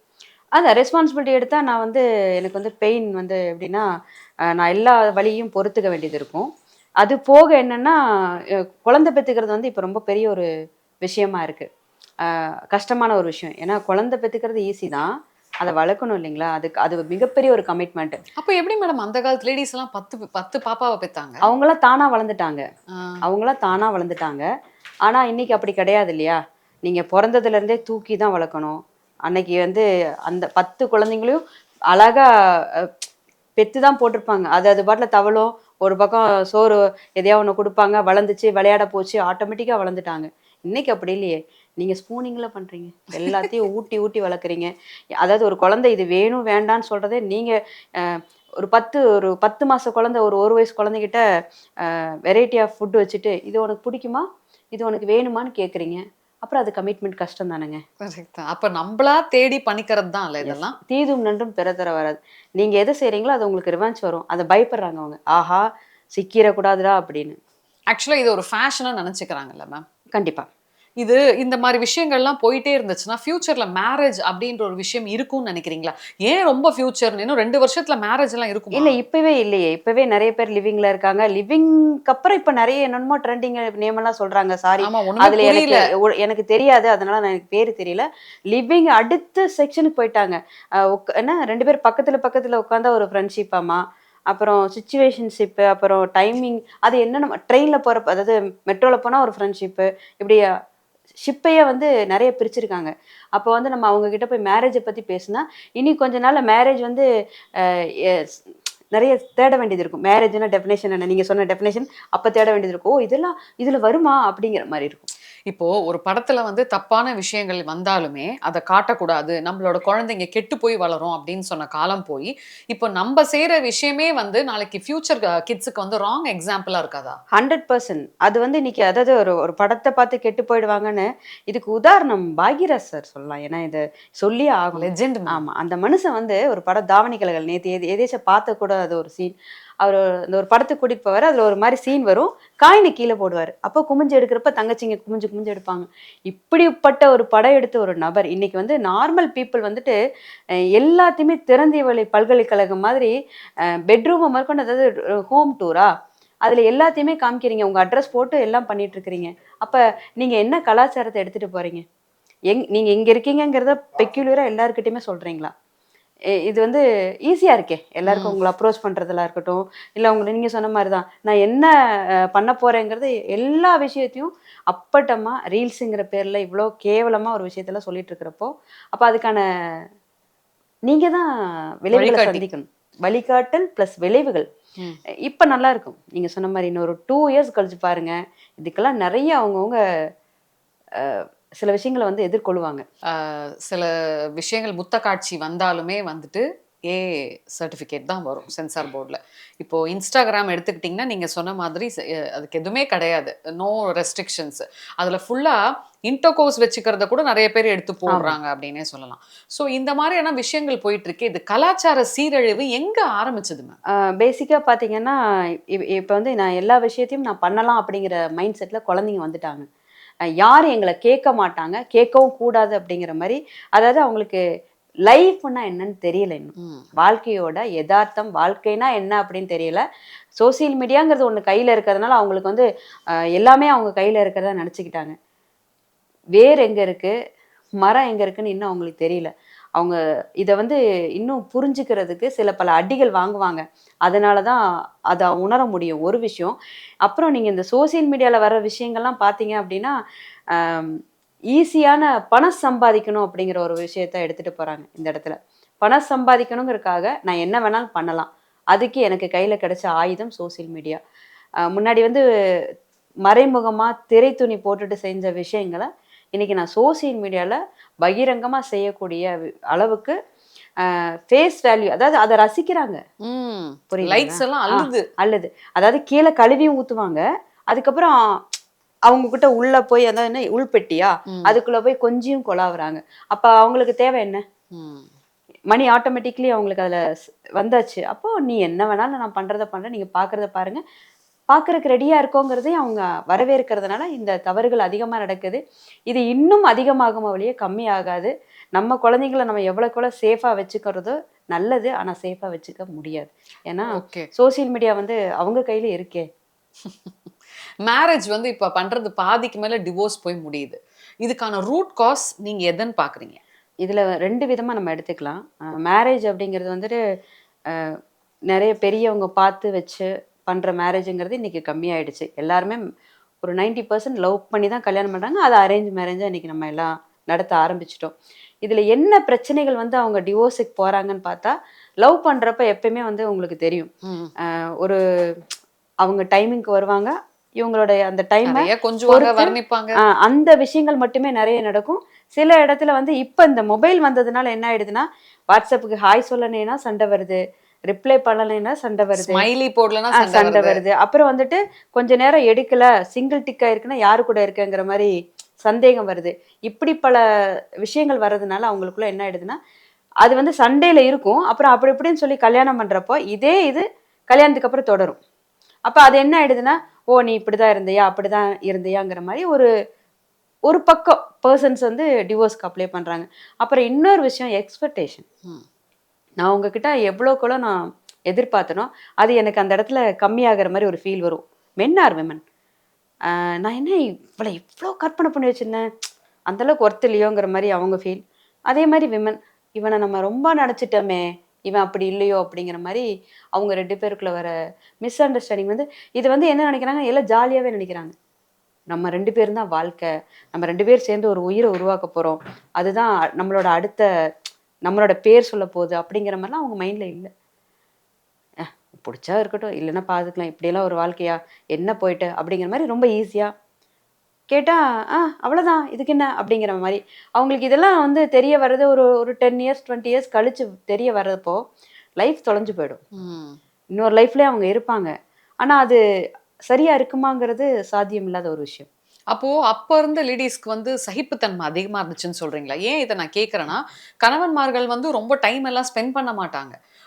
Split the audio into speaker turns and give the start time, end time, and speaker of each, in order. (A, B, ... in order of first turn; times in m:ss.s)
0:00.6-0:03.8 A
0:04.5-0:06.5 A
0:07.0-0:08.0 A
0:08.6-0:10.5 A
0:11.0-0:11.7 A
0:12.2-0:15.1 A
0:15.6-0:18.2 A
0:18.4-0:21.4 B
0:21.4-0:22.6 A
0:23.2-0:24.4 A
0:25.0-0:33.0 A
0:33.6-0:51.2 A
0:43.2-0:43.5 B
0:51.8-0:57.8 A
0:58.0-1:00.8 B
1:00.4-1:07.4 A
1:07.9-1:09.8 B
1:10.1-1:10.5 A
1:11.0-1:19.0 B
1:18.7-1:40.4 A
1:24.8-1:25.8 B
1:41.2-1:47.0 A
1:47.6-1:48.4 A
1:48.9-1:55.1 A
1:55.5-2:07.2 B
2:07.3-2:30.0 A
2:14.8-2:15.4 B
2:30.8-2:33.1 A
2:33.9-2:35.9 A
2:36.4-2:41.8 A
2:42.5-2:45.5 A
2:46.4-2:59.8 A
2:48.1-2:48.4 B
3:00.9-3:01.3 A
3:01.8-3:04.5 A
3:01.9-3:02.4 B
3:05.2-3:09.8 A
3:11.0-3:12.8 A
3:13.1-3:33.8 B
3:28.1-3:28.4 A
3:34.1-3:35.2 A
3:35.7-3:39.7 A
3:40.4-3:44.4 A
3:45.1-3:49.8 A
3:46.6-3:46.9 B
3:50.4-3:52.6 A
3:53.4-3:55.1 A
3:56.4-3:57.1 A
3:57.8-4:04.6 A
4:05.1-4:09.9 A
4:10.5-4:11.0 A
4:11.5-4:21.0 A
4:21.7-4:22.2 A
4:23.2-4:30.2 A
4:30.8-4:33.0 A
4:33.2-4:35.1 B
4:33.9-4:38.2 A
4:39.1-4:44.4 A
4:41.3-4:41.6 B
4:44.7-4:45.1 B
4:45.7-4:47.0 A
4:47.6-4:50.8 A
4:51.5-5:06.3 A
5:03.9-5:04.3 B
5:06.8-5:07.1 B
5:07.9-5:13.4 B
5:13.8-5:17.0 A
5:17.7-5:18.0 A
5:18.5-5:22.8 A
5:23.4-5:33.9 A
5:34.0-5:34.3 B
5:34.4-5:35.4 A
5:36.0-5:49.5 A
5:38.4-5:40.0 B
5:49.2-5:50.8 B
5:50.1-5:55.1 A
5:55.6-5:57.2 A
5:57.8-5:59.6 A
6:00.2-6:05.2 A
6:05.9-6:09.7 A
6:10.7-6:15.2 A
6:16.4-6:22.4 A
6:23.3-6:25.9 A
6:26.5-6:34.5 A
6:35.0-6:38.2 A
6:38.9-6:44.1 A
6:44.9-6:47.3 A
6:48.6-6:53.5 A
6:54.5-7:01.6 A
7:02.2-7:03.0 A
7:03.2-7:03.6 B
7:04.0-7:06.0 A
7:06.7-7:08.9 A
7:09.3-7:16.8 B